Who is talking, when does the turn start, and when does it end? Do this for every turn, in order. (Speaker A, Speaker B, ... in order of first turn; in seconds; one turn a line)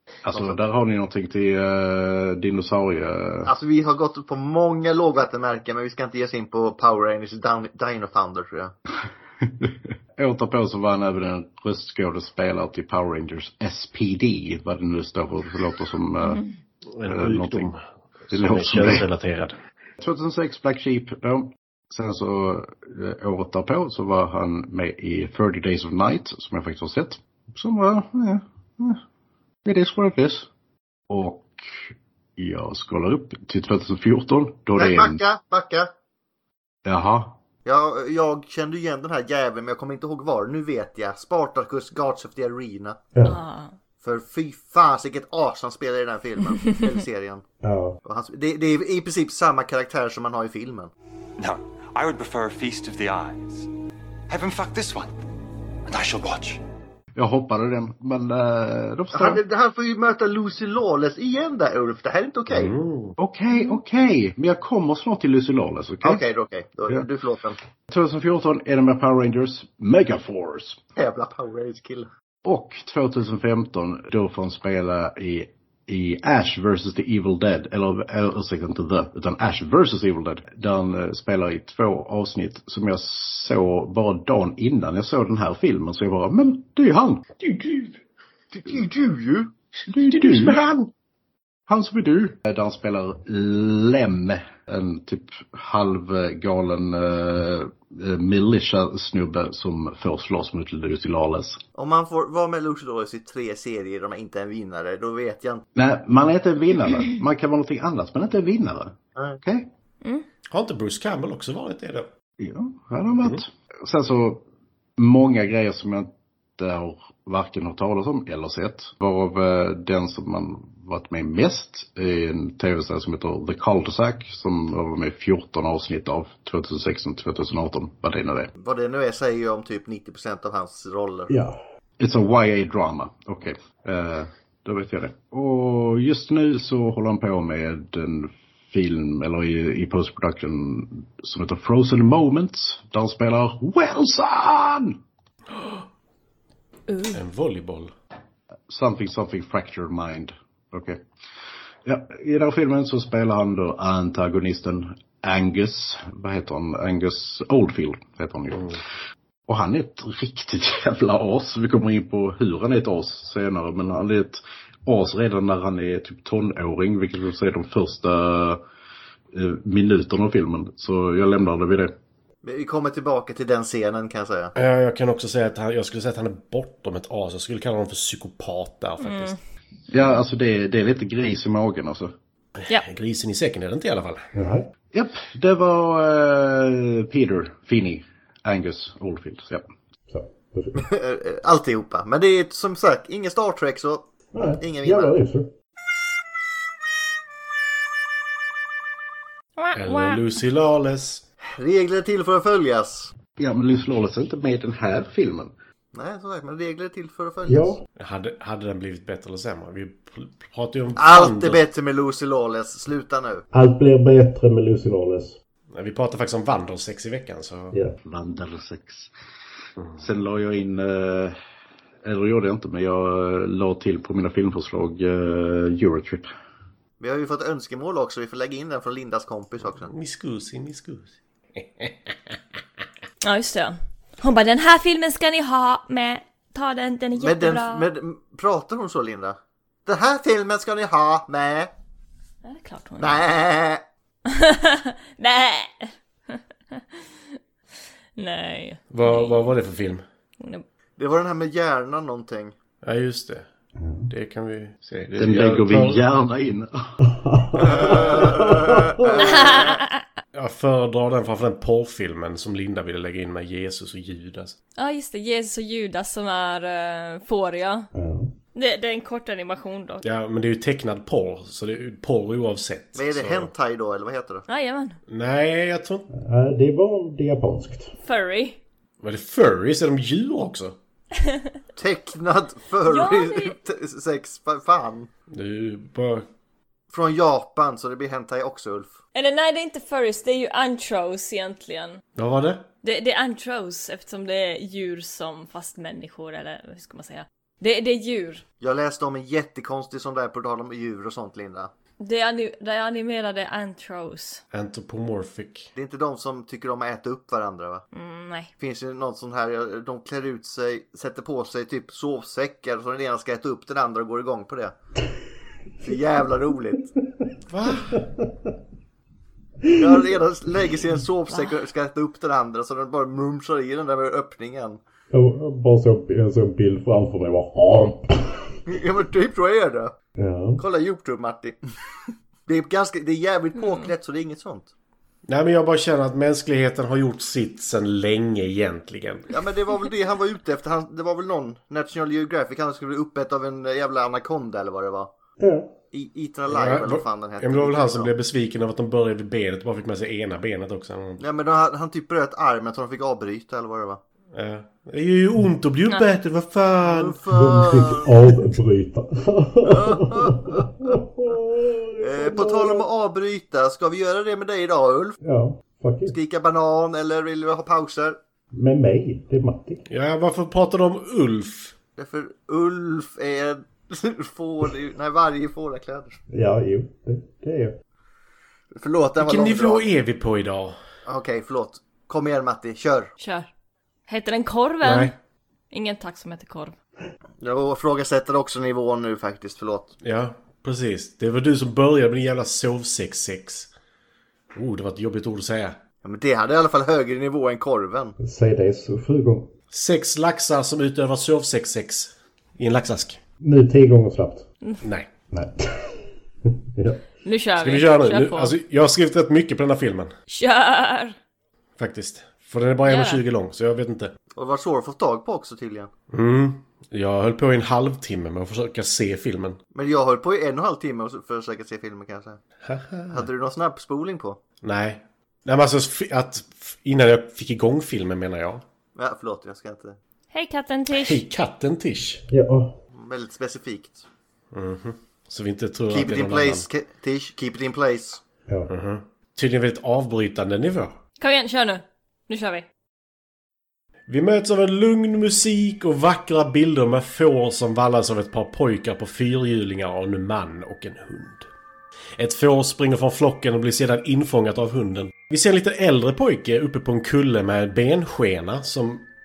Speaker A: 0.2-3.5
Speaker B: 0.3-0.6
Speaker B: 3.5-8.7
Speaker A: 9.4-16.4
Speaker C: 16.9-19.6
Speaker A: 17.1-17.7
Speaker A: 18.3-19.1
Speaker A: 20.0-29.0
Speaker A: 29.6-30.5
Speaker A: 31.1-31.6
Speaker A: 32.4-35.2
Speaker B: 34.7-35.9
Speaker A: 36.8-37.4
Speaker B: 37.6-43.0
Speaker D: 43.2-43.7
Speaker B: 44.0-47.4
Speaker E: 47.6-48.0
Speaker B: 48.0-50.9
Speaker F: 51.4-53.7
Speaker F: 54.3-55.1
Speaker F: 55.9-56.6
Speaker A: 57.1-59.4
Speaker B: 59.1-62.7
Speaker C: 62.5-63.2
Speaker A: 63.2-66.2
Speaker B: 66.0-67.6
Speaker A: 67.9-70.8
Speaker B: 71.0-72.1
Speaker A: 72.4-87.2
Speaker B: 88.5-89.5
Speaker A: 89.9-90.6
Speaker A: 91.7-101.6
Speaker B: 101.8-105.6
Speaker A: 105.7-109.7
Speaker C: 110.5-112.1
Speaker A: 112.4-114.4
Speaker A: 115.0-128.5
Speaker B: 128.6-131.3
Speaker E: 131.3-131.6
Speaker A: 132.0-145.0
Speaker C: 145.5-145.8
Speaker D: 146.9-147.2
Speaker C: 147.1-147.9
Speaker A: 148.7-151.0
Speaker A: 151.8-158.8
Speaker A: 159.5-168.6
Speaker A: 169.3-171.9
Speaker B: 172.4-174.5
Speaker C: 174.5-179.3
Speaker D: 179.0-179.4
Speaker A: 179.9-182.1
Speaker C: 182.6-184.2
Speaker E: 184.3-184.7
Speaker A: 184.9-189.6
Speaker E: 190.1-190.8
Speaker B: 190.8-194.1
Speaker E: 194.3-195.5
Speaker B: 194.6-195.1
Speaker D: 199.6-200.2
Speaker C: 199.7-201.2
Speaker B: 201.6-203.1
Speaker A: 203.4-205.5
Speaker B: 205.9-207.8
Speaker E: 207.5-207.8
Speaker C: 208.0-211.6
Speaker B: 210.9-213.4
Speaker E: 213.5-215.4
Speaker C: 215.7-217.8
Speaker A: 218.0-219.1
Speaker A: 220.0-221.3
Speaker A: 222.0-226.3
Speaker B: 227.0-229.9
Speaker C: 229.9-232.3
Speaker D: 233.2-237.9
Speaker B: 237.2-241.7
Speaker D: 242.4-243.2
Speaker B: 243.0-243.8
Speaker D: 244.2-247.0
Speaker D: 248.2-249.4
Speaker C: 248.9-250.0
Speaker D: 250.4-250.6
Speaker B: 251.0-252.5
Speaker C: 252.8-253.5
Speaker E: 253.8-254.1
Speaker C: 254.1-256.0
Speaker A: 255.2-256.9
Speaker E: 257.0-259.1
Speaker B: 257.6-259.8
Speaker D: 259.1-260.0
Speaker C: 260.3-264.5
Speaker D: 264.8-267.9
Speaker E: 267.9-268.3
Speaker D: 268.5-270.0
Speaker C: 270.0-273.5
Speaker B: 272.9-274.4
Speaker D: 274.5-275.0
Speaker C: 275.1-276.1
Speaker E: 276.1-277.9
Speaker D: 278.0-278.6
Speaker C: 279.0-280.8
Speaker B: 281.8-285.1
Speaker D: 282.9-283.5
Speaker C: 285.3-286.3
Speaker B: 286.9-288.9
Speaker D: 289.1-292.0
Speaker C: 292.1-292.6
Speaker D: 292.8-298.4
Speaker B: 298.6-301.7
Speaker D: 302.0-304.4
Speaker C: 304.5-305.7
Speaker B: 305.8-307.9
Speaker D: 307.9-308.5
Speaker B: 308.6-314.7
Speaker B: 315.8-316.9
Speaker C: 317.5-318.0
Speaker E: 317.9-318.5
Speaker B: 319.8-324.8
Speaker E: 325.1-328.4
Speaker B: 328.6-329.9
Speaker E: 330.2-330.6
Speaker B: 330.6-331.6
Speaker B: 332.5-334.7
Speaker D: 333.6-333.9
Speaker C: 335.3-339.3
Speaker B: 339.3-345.1
Speaker E: 345.4-345.7
Speaker B: 345.9-348.1
Speaker C: 346.5-351.2
Speaker B: 351.2-354.0
Speaker C: 354.3-357.2
Speaker B: 356.8-358.1
Speaker E: 357.3-362.8
Speaker B: 359.6-360.9
Speaker B: 362.0-365.2
Speaker E: 365.2-366.1
Speaker B: 366.1-368.2
Speaker E: 368.5-369.8
Speaker C: 369.9-371.7
Speaker B: 372.0-376.2
Speaker E: 376.3-377.8
Speaker B: 378.7-379.9
Speaker C: 379.2-380.8
Speaker B: 381.1-383.1
Speaker D: 383.2-383.5
Speaker D: 384.1-385.1
Speaker C: 384.8-385.1
Speaker D: 385.7-386.7
Speaker B: 387.4-389.9
Speaker C: 390.0-393.7
Speaker C: 394.5-395.8
Speaker B: 396.0-398.1
Speaker E: 398.2-399.5
Speaker C: 399.7-403.2
Speaker E: 403.4-404.4
Speaker C: 404.8-405.1
Speaker E: 405.3-406.0
Speaker E: 406.7-407.0
Speaker D: 407.2-408.5
Speaker C: 407.6-410.1
Speaker D: 410.3-411.1
Speaker C: 411.8-414.1
Speaker D: 412.9-413.2
Speaker B: 414.4-415.9
Speaker C: 416.1-419.6
Speaker B: 419.7-422.4
Speaker C: 422.6-423.3
Speaker B: 423.1-424.4
Speaker C: 424.6-428.6
Speaker B: 428.9-430.0
Speaker D: 430.3-431.2
Speaker C: 430.9-432.2
Speaker E: 432.3-432.8
Speaker B: 432.9-434.0
Speaker C: 434.5-436.6
Speaker B: 435.9-438.2
Speaker C: 438.7-441.0
Speaker D: 441.2-442.6
Speaker C: 444.1-451.5
Speaker C: 452.2-459.1